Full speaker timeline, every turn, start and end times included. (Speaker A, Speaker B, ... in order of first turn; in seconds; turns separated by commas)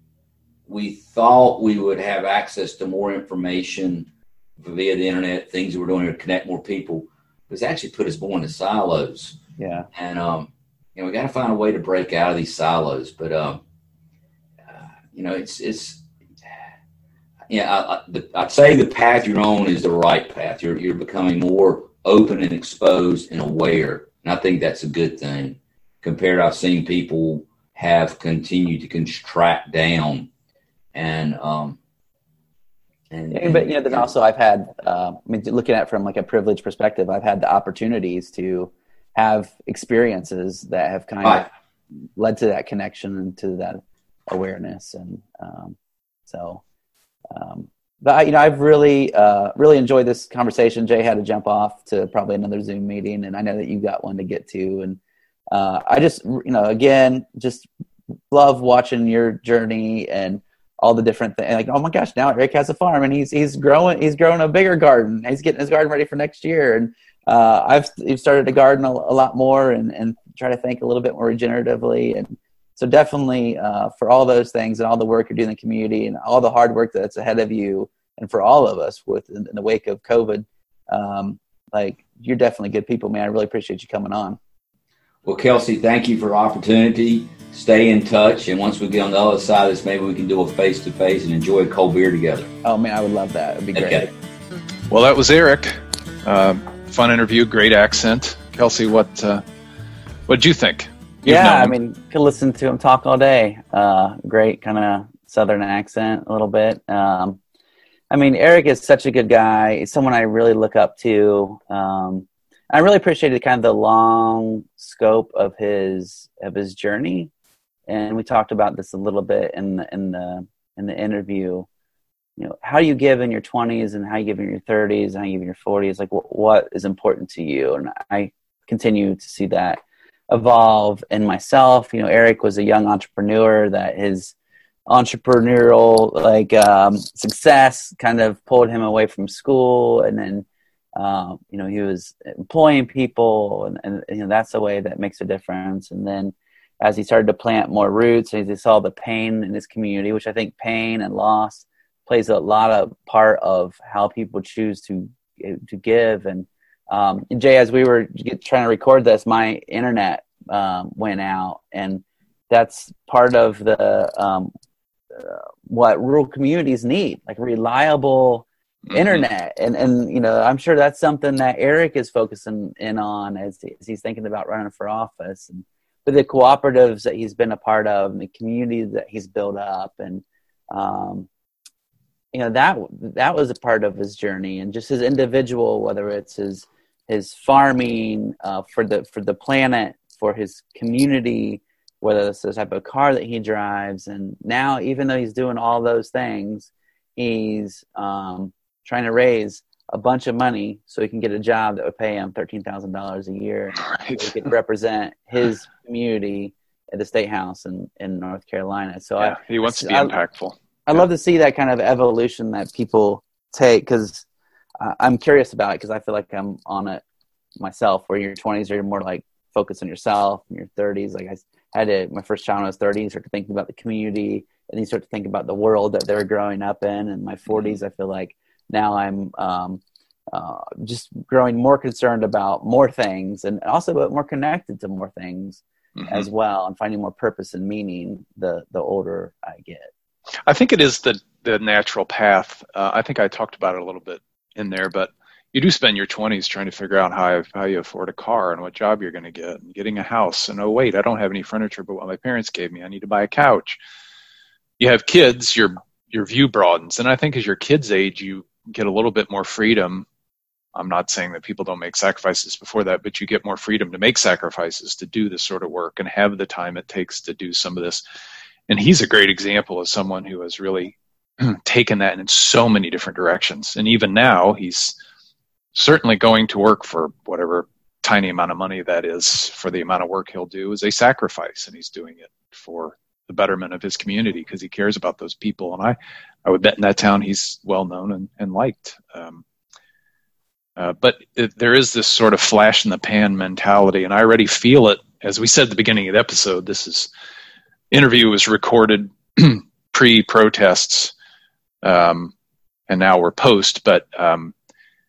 Speaker A: 0.7-4.1, Speaker A: 4.6-9.4, Speaker B: 9.6-9.9, Speaker A: 9.9-13.6, Speaker A: 14.7-16.0, Speaker A: 17.5-30.3, Speaker A: 30.9-31.8, Speaker A: 33.1-34.1, Speaker B: 33.3-41.5, Speaker B: 42.2-45.8, Speaker B: 46.3-46.6, Speaker B: 47.3-55.0, Speaker B: 55.5-57.7, Speaker B: 58.3-84.4, Speaker A: 85.2-92.5, Speaker B: 92.6-94.1, Speaker A: 93.7-94.1, Speaker C: 94.9-99.4, Speaker C: 100.3-101.8, Speaker B: 101.2-107.4, Speaker B: 108.1-117.3, Speaker B: 117.9-121.7, Speaker B: 122.4-134.3, Speaker B: 134.9-164.5, Speaker B: 165.1-181.3, Speaker C: 168.9-169.2, Speaker B: 182.3-210.1, Speaker C: 203.8-204.3, Speaker C: 209.2-211.0, Speaker B: 210.9-214.3, Speaker B: 214.8-217.0, Speaker B: 217.6-239.9, Speaker C: 236.0-236.3, Speaker C: 240.5-253.8, Speaker C: 254.8-260.1, Speaker C: 260.7-268.0, Speaker C: 268.7-274.9, Speaker C: 275.7-289.4, Speaker C: 290.8-297.1, Speaker C: 297.9-301.1, Speaker C: 301.8-302.3, Speaker C: 302.9-304.5